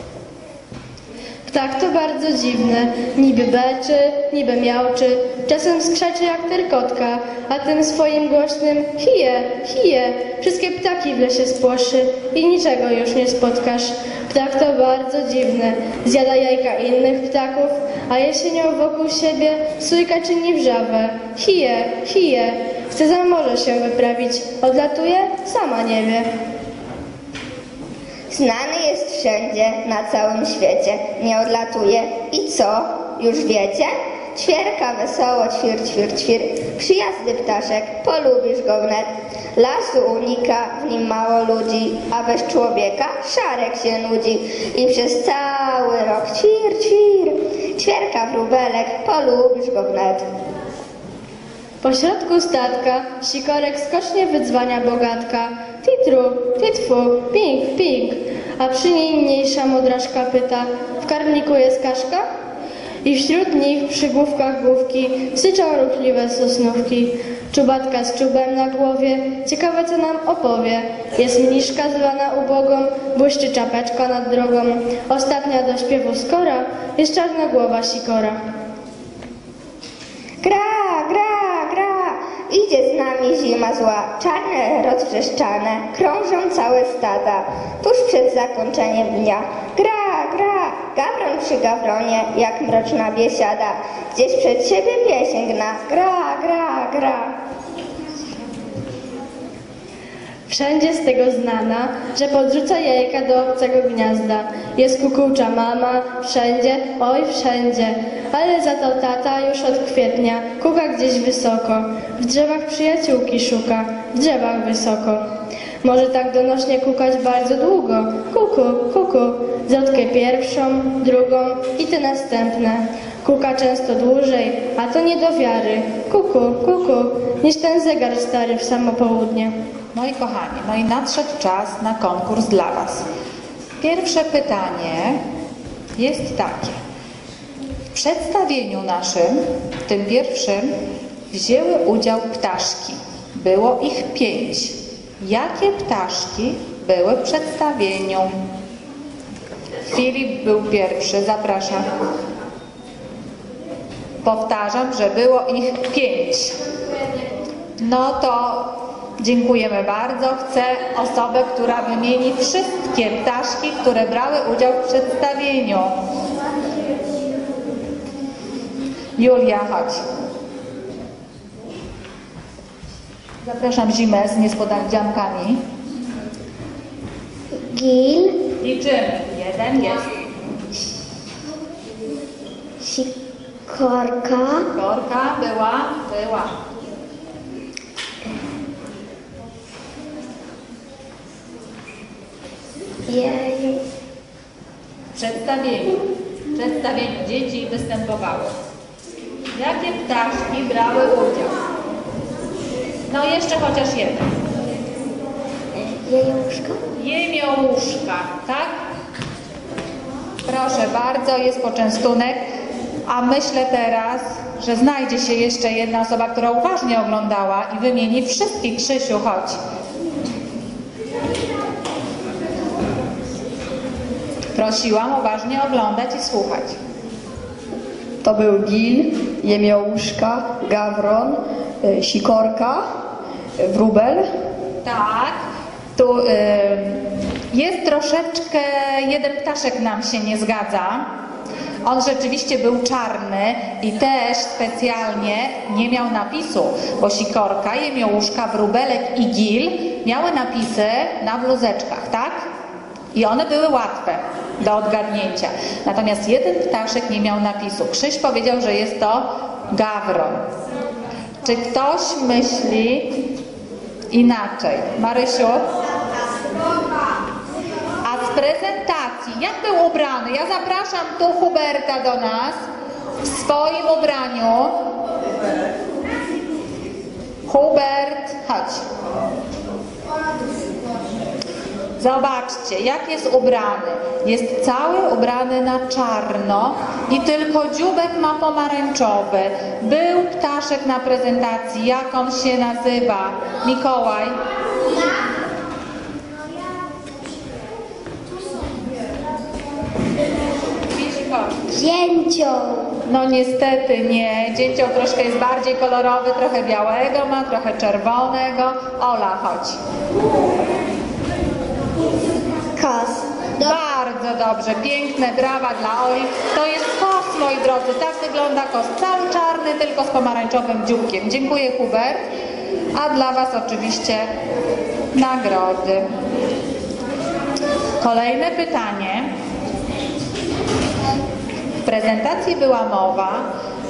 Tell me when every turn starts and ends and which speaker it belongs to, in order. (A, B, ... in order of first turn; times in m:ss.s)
0:01.5-0:26.3 A
0:28.3-0:50.3 B
0:51.8-1:02.3 A
1:03.0-1:18.4 A
1:20.4-1:37.3 B
1:40.5-1:55.2 A
1:55.8-2:09.6 A
2:10.0-2:13.1 C
2:13.8-2:15.2 C
2:16.0-2:16.8 C
2:17.9-2:20.7 C
2:21.3-2:28.3 C
2:29.9-2:31.9 C
2:34.2-2:36.6 C
2:37.8-2:45.9 C
2:49.2-2:50.0 C
2:53.4-2:55.6 C
2:57.7-2:58.4 D
2:58.6-3:00.1 C
3:02.8-3:03.1 D
3:03.7-3:04.7 D
3:04.7-3:06.6 C
3:13.1-3:13.8 D
3:15.2-3:16.0 C
3:16.5-3:18.5 C
3:19.5-3:21.6 C
3:23.1-3:24.3 C
3:25.8-3:26.8 D
3:27.0-3:28.7 C
3:30.5-3:32.5 C
3:33.1-3:39.6 C
3:44.6-3:46.8 C
3:48.2-3:52.8 E
3:53.6-3:54.3 E
3:54.8-3:55.4 C
3:56.0-4:01.1 C
4:01.8-4:12.5 C
4:13.1-4:20.4 C
4:21.4-4:23.2 C
4:24.1-4:25.6 C
4:28.0-4:32.6 C
4:33.2-4:34.8 C
4:37.5-4:38.8 C
4:42.0-4:54.4 C
5:01.0-5:01.6 C
5:01.7-5:02.9 D
5:03.1-5:09.8 C
5:12.8-5:13.7 D
5:13.6-5:22.2 C
5:23.0-5:24.3 C
5:25.1-5:26.1 C
5:28.0-5:29.3 C
5:31.8-5:33.5 C